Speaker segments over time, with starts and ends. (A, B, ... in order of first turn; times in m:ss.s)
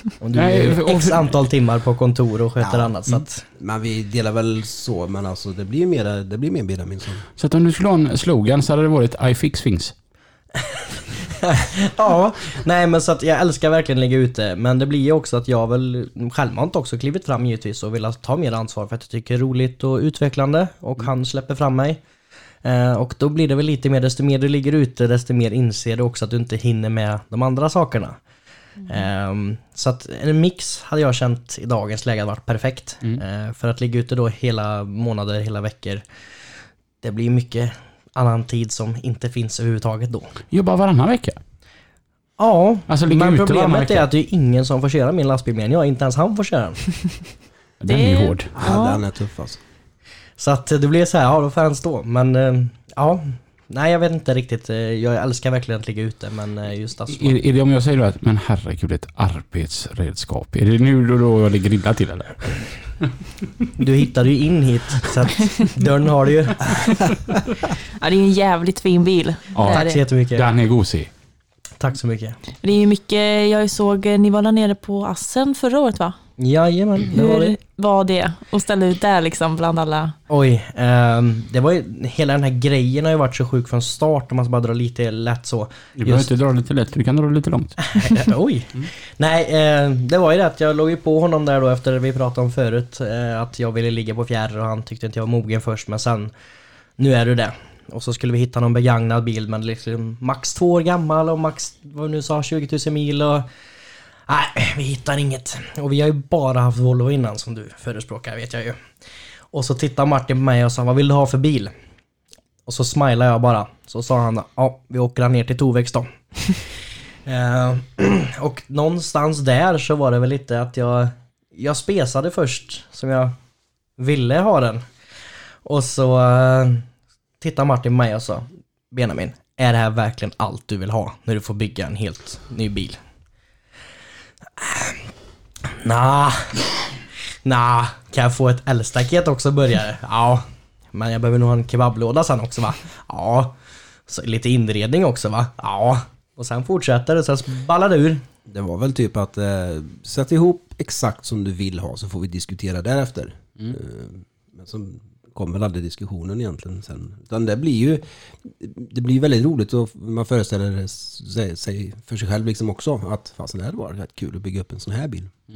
0:00.2-0:03.4 A
0:00.3-0:01.3 B
0:02.6-0:07.2 C
0:07.4-0:09.9 B
0:11.3-0:22.0 A
0:22.6-0:28.2 A
0:28.9-0:36.0 A
0:37.0-0:40.3 A
0:40.5-0:41.4 B
0:42.4-0:47.0 A
0:42.9-0:44.1 B
0:47.8-0:48.5 B
0:47.9-0:49.0 D
0:48.5-0:49.6 C
0:50.4-0:57.4 A
0:57.1-1:02.6 B
1:03.8-1:07.1 A
1:08.0-1:10.0 D
1:09.6-1:11.1 B
1:09.7-1:10.5 A
1:11.8-1:12.4 A
1:12.6-1:16.2 D
1:16.4-1:17.6 A
1:17.1-1:20.2 D
1:20.3-1:26.3 A
1:26.0-1:27.9 B
1:27.9-1:36.3 A
1:37.0-1:43.4 A
1:44.3-1:48.8 A
1:49.5-1:51.7 A
1:52.7-1:56.6 A
1:57.3-2:03.3 A
2:04.0-2:04.8 A
2:05.6-2:06.8 A
2:07.4-2:13.0 A
2:14.6-2:15.0 A
2:15.7-2:16.6 A
2:17.4-2:23.5 A
2:24.1-2:28.2 A
2:28.5-2:45.3 C